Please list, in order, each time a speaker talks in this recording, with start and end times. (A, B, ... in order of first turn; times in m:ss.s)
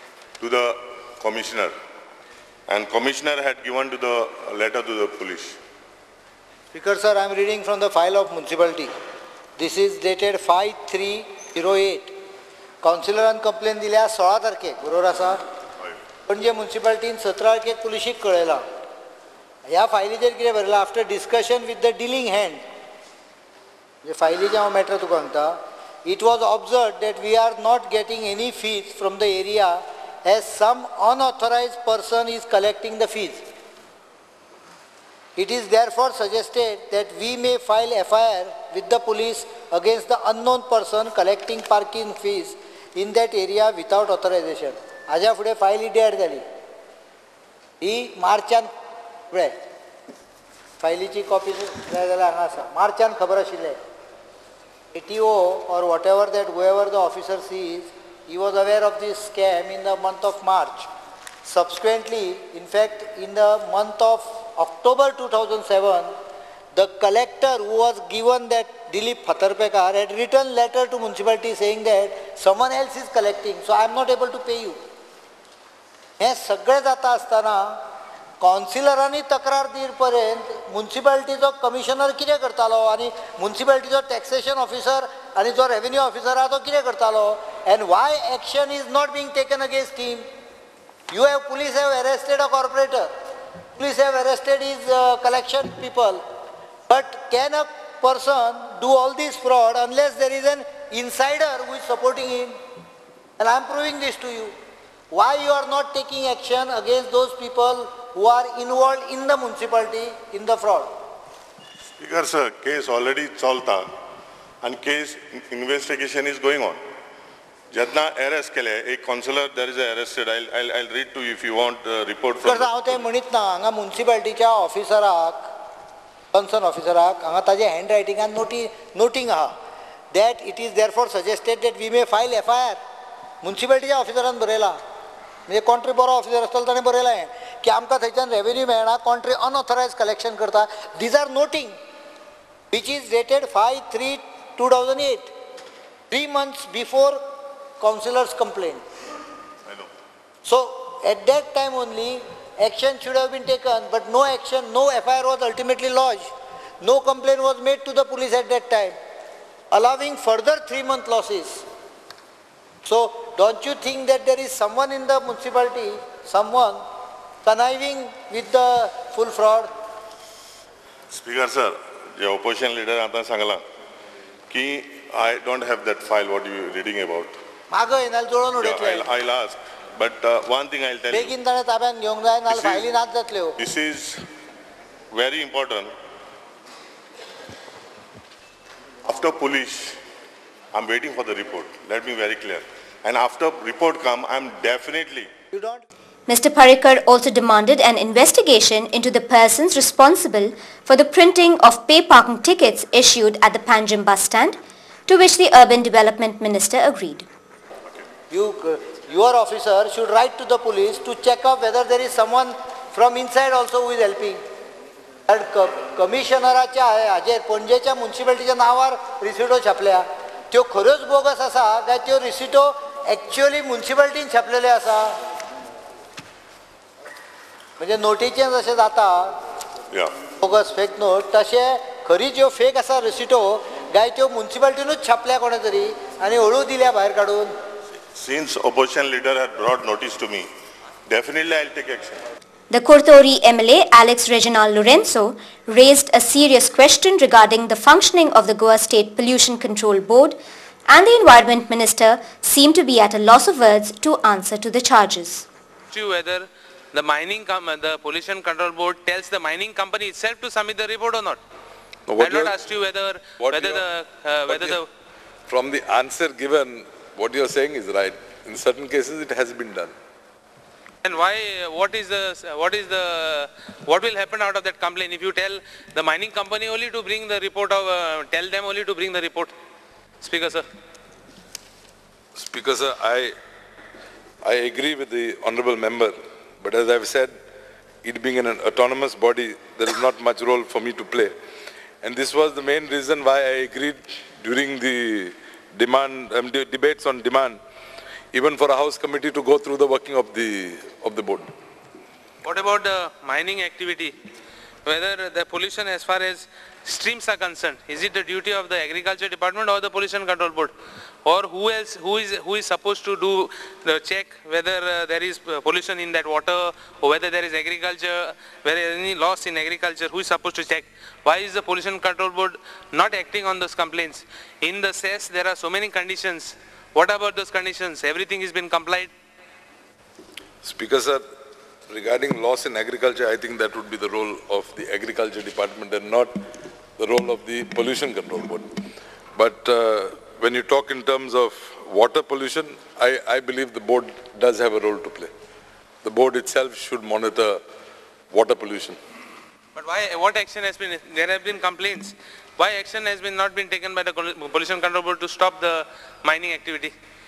0:00.4-0:01.7 A
0:02.7-0:05.6 A
0:06.7-0:08.9 B
0:09.6-0:12.1 B
0:12.8-0:15.4 B
0:16.3-0:18.6 B
0:19.7-0:22.6 B
0:24.0-0:33.4 B
0:35.4-0:46.4 B
0:47.8-0:48.7 B
0:49.3-0:49.5 B
0:50.8-0:53.8 B
0:54.9-1:00.9 B
1:01.4-1:06.1 B
1:06.7-1:14.8 B
1:16.2-1:17.8 B
1:18.4-1:30.2 B
1:31.1-1:33.1 B
1:33.8-1:36.2 B
1:36.9-1:42.6 B
1:43.4-1:44.5 B
1:45.1-1:50.9 B
1:52.0-1:53.9 A
1:54.6-1:56.8 A
1:57.7-2:03.0 A
2:02.4-2:05.5 B
2:06.3-2:09.5 B
2:10.1-2:12.8 B
2:13.4-2:14.8 B
2:15.5-2:21.7 B
2:22.7-2:25.3 B
2:26.1-2:27.2 B
2:27.8-2:28.8 B
2:30.4-2:36.3 B
2:36.8-2:39.0 B
2:39.7-2:41.6 B
2:42.8-2:46.8 B
2:47.4-2:49.7 B
2:51.1-2:53.6 A
2:54.5-2:57.3 A
2:57.7-2:59.1 B
2:58.6-3:01.3 A
3:01.1-3:03.5 B
3:02.5-3:02.9 A
3:03.6-3:04.2 A
3:05.1-3:05.9 A
3:09.0-3:10.0 A
3:10.7-3:15.3 A
3:15.5-3:15.8 B
3:16.3-3:27.2 C
3:28.3-3:34.4 B
3:35.3-3:45.2 B
3:47.8-3:49.3 B
3:50.4-3:57.5 B
3:58.2-4:00.5 A
4:01.1-4:02.2 A
4:02.7-4:10.4 C
4:10.9-4:15.4 C
4:15.9-4:21.4 D
4:22.1-4:22.5 E
4:22.2-4:24.8 D
4:23.4-4:23.8 E
4:24.5-4:24.8 E
4:25.5-4:29.9 E
4:31.0-4:39.5 D
4:40.2-4:40.6 D
4:42.4-4:43.3 E
4:44.4-4:47.3 E
4:48.0-4:51.3 E
4:52.0-4:57.6 E
4:58.3-5:01.5 E
5:02.4-5:04.1 D
5:04.8-5:10.7 D
5:11.2-5:29.1 D
5:30.6-5:31.2 E
5:31.9-5:36.3 E
5:37.0-5:38.6 E
5:39.4-5:45.3 E
5:46.0-5:47.6 E
5:48.3-5:49.0 E
5:49.7-5:56.9 D